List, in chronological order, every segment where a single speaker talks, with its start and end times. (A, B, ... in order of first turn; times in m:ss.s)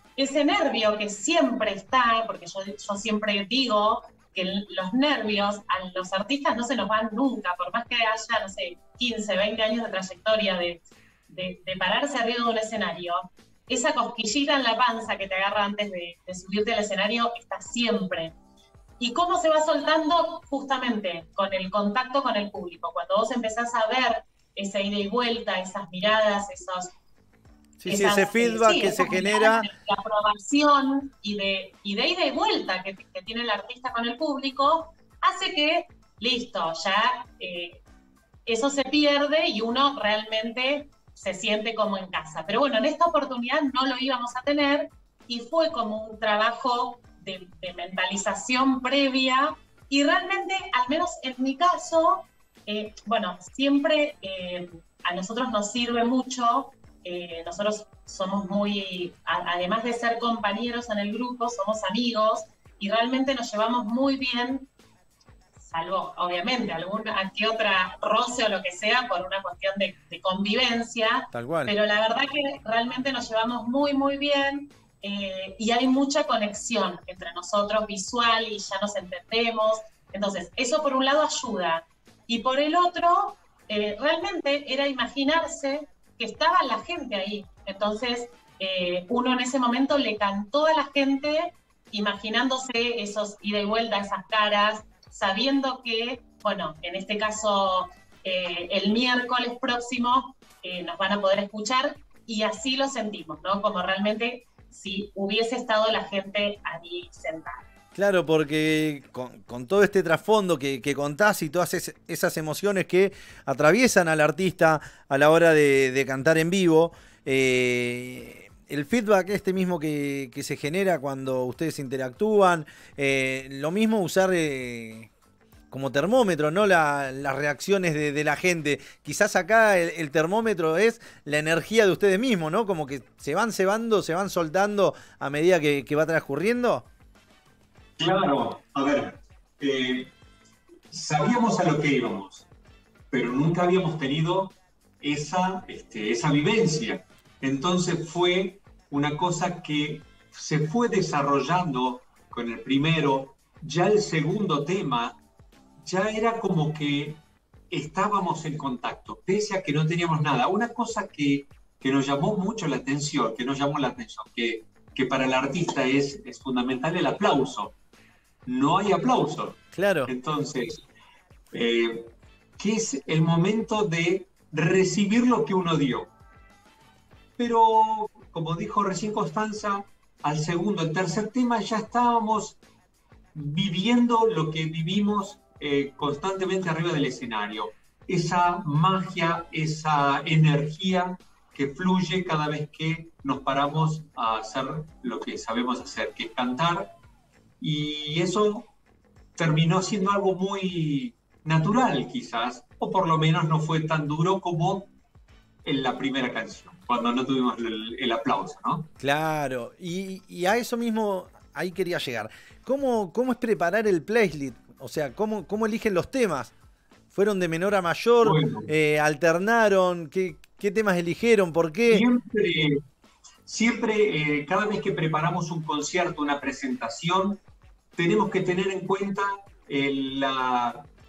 0:00.2-0:18.3 A
0:19.0-0:26.9 A
0:27.8-0:29.7 B
0:27.8-0:37.8 A
0:38.4-1:04.7 A
1:05.6-1:47.6 A
1:11.3-1:11.7 B
1:47.9-2:05.1 B
2:05.7-2:16.8 B
2:18.0-2:20.1 C
2:20.9-2:22.5 C
2:23.1-2:35.2 C
2:35.8-2:47.7 C
2:48.4-2:50.8 C
2:49.7-2:50.1 B
2:51.5-2:56.1 C
2:57.4-3:02.6 C
3:03.3-3:16.9 C
3:17.6-3:18.7 C
3:19.4-3:24.9 C
3:25.6-3:28.9 C
3:29.0-3:36.5 B
3:37.1-3:42.0 B
3:38.2-3:38.7 C
3:41.9-3:42.8 C
3:43.4-3:47.4 C
3:48.0-3:50.9 C